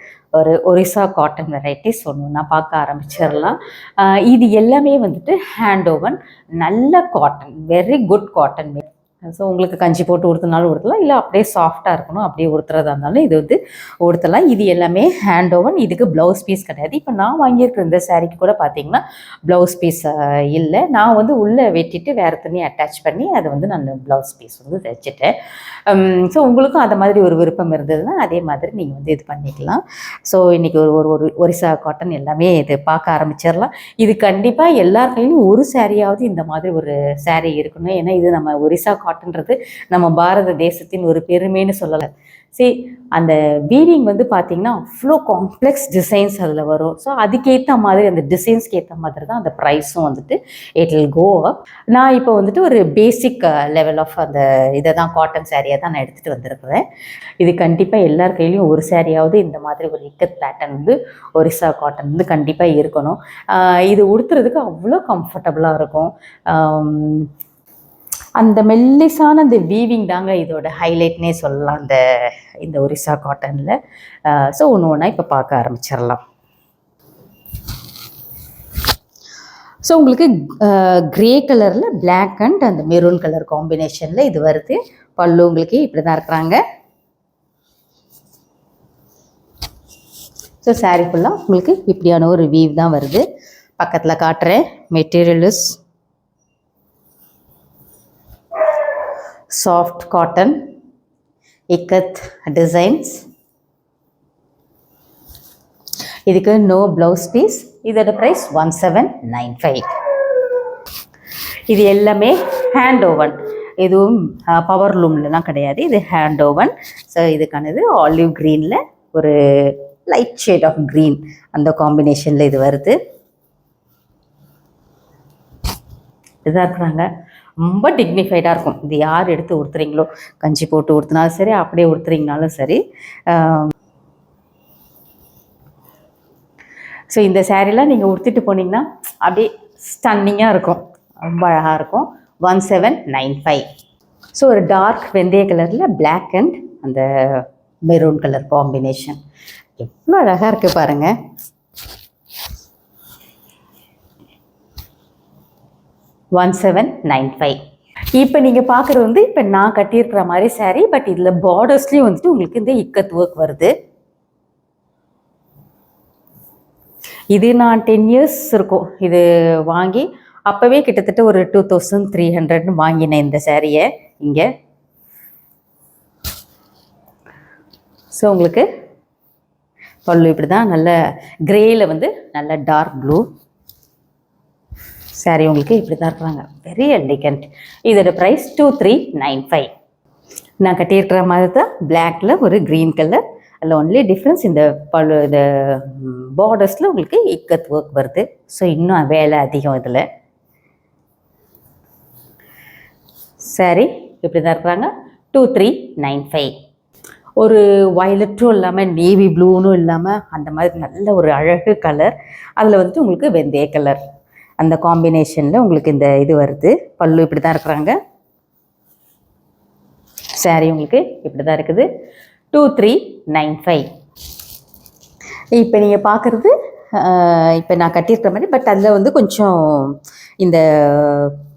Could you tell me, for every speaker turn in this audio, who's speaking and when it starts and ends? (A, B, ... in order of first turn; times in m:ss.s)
0:00.4-0:25.3 A
0:25.9-0:56.8 A
0:57.4-1:07.3 A
1:08.4-1:12.0 A
1:12.6-1:16.2 A
1:19.8-1:26.6 A
1:30.6-1:33.2 A
1:33.8-1:35.8 A
1:39.5-1:40.6 A
1:41.7-1:43.2 A
1:46.3-1:49.9 A
1:51.7-2:03.0 A
2:06.4-2:07.1 A
2:07.6-2:13.7 A
2:17.1-2:23.6 A
2:24.4-2:29.2 A
2:29.8-2:31.1 A
2:36.4-2:37.6 A
2:38.1-2:43.7 A
2:47.3-2:54.5 A
2:58.1-2:58.7 A
3:00.0-3:00.9 A
3:01.5-3:03.2 A
3:05.2-3:09.7 A
3:10.6-3:20.0 A
3:23.4-3:26.5 A
3:27.4-3:34.0 A
3:34.6-3:38.0 A
3:40.4-3:41.9 A
3:42.5-3:43.9 A
3:45.5-3:51.4 A